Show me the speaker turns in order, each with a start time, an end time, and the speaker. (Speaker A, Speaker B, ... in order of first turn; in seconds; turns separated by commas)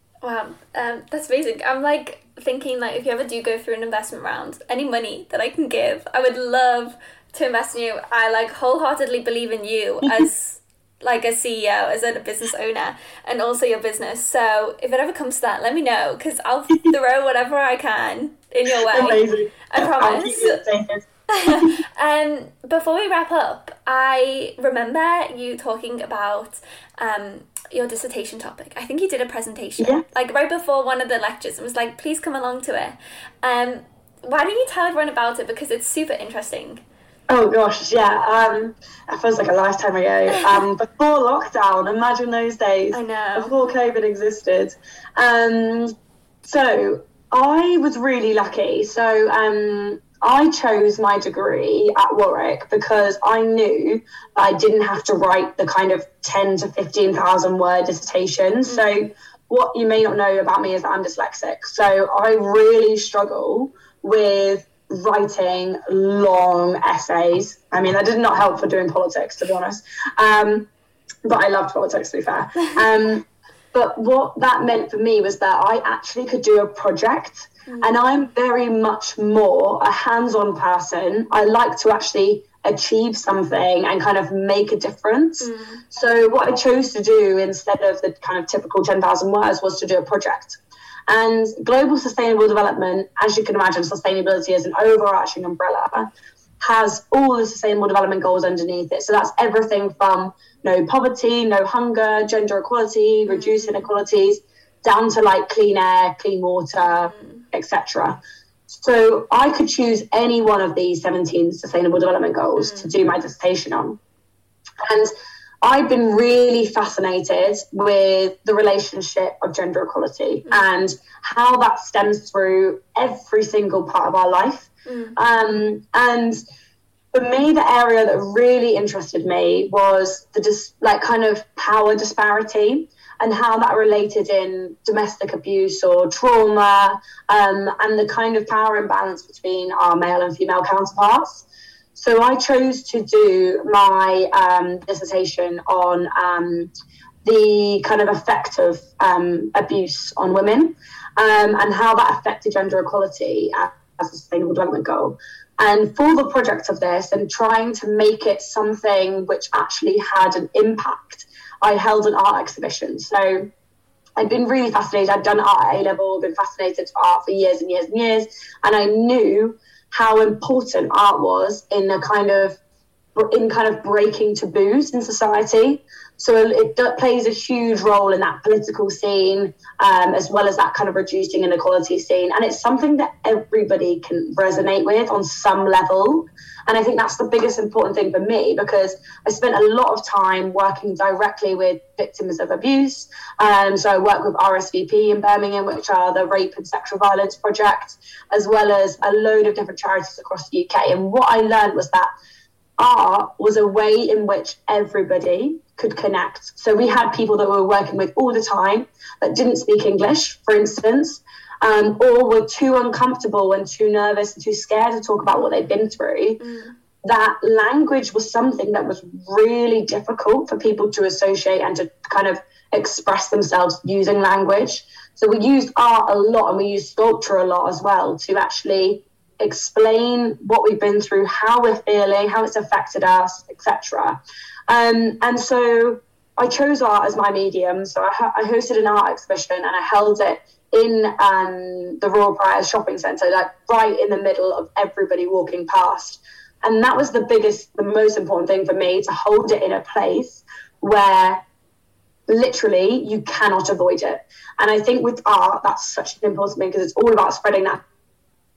Speaker A: 0.2-20.6, Speaker B: 18.7-21.8, Speaker A: 21.3-36.8, Speaker B: 29.8-30.0, Speaker B: 37.3-45.9, Speaker A: 40.3-40.6, Speaker A: 42.9-43.5, Speaker B: 46.4-70.7, Speaker B: 71.2-114.0, Speaker A: 77.7-78.0, Speaker A: 85.4-85.8, Speaker A: 103.3-103.9, Speaker A: 106.8-107.4, Speaker A: 112.6-112.9, Speaker B: 114.8-115.1, Speaker B: 115.6-126.4, Speaker A: 124.8-125.2, Speaker B: 127.1-146.7, Speaker B: 147.2-163.5, Speaker B: 164.2-172.6, Speaker B: 173.1-202.1, Speaker B: 202.8-216.4, Speaker A: 216.4-216.8, Speaker B: 217.0-251.4, Speaker B: 252.3-257.8